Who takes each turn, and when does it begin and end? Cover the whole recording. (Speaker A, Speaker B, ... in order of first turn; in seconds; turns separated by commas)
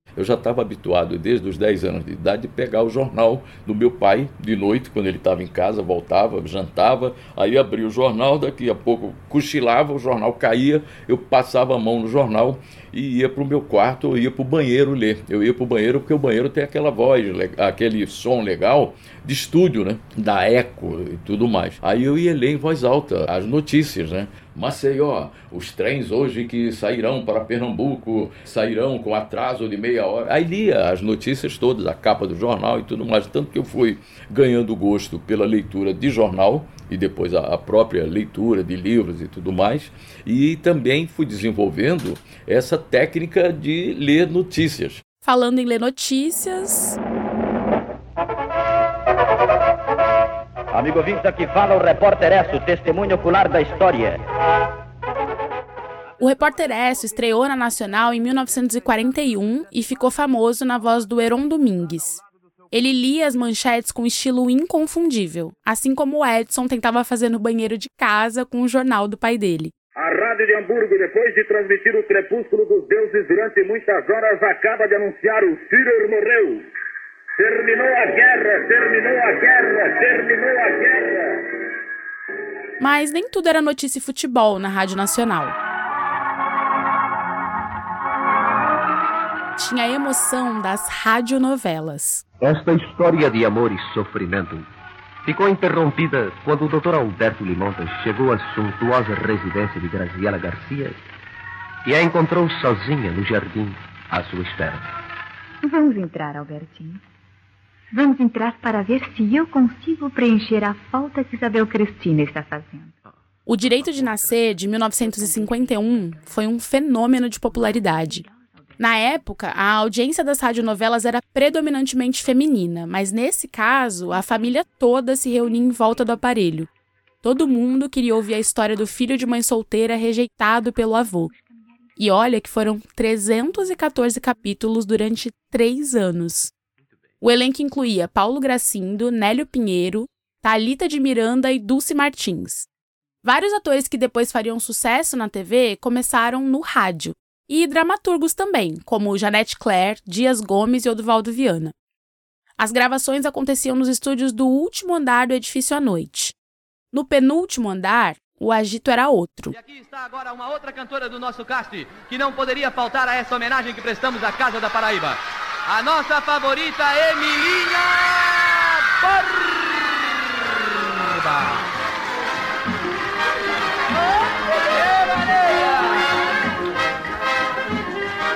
Speaker A: 0.2-45.0, Speaker B: 45.2-47.0, Speaker C: 50.7-54.2, Speaker B: 56.2-62.2, Speaker B: 62.7-69.7, Speaker D: 70.0-76.7, Speaker D: 77.4-81.4, Speaker B: 82.8-85.5, Speaker B: 89.6-92.2, Speaker E: 92.4-94.7, Speaker E: 95.2-101.0, Speaker E: 101.8-104.8, Speaker F: 105.6-107.0, Speaker F: 107.9-112.9, Speaker B: 113.5-118.2, Speaker B: 118.8-126.7, Speaker B: 127.2-131.3, Speaker B: 132.0-136.5, Speaker B: 137.2-142.7, Speaker B: 143.2-151.7, Speaker B: 152.6-156.3, Speaker B: 156.9-159.5, Speaker G: 159.5-169.9, Speaker G: 170.7-171.7, Speaker G: 174.7-175.9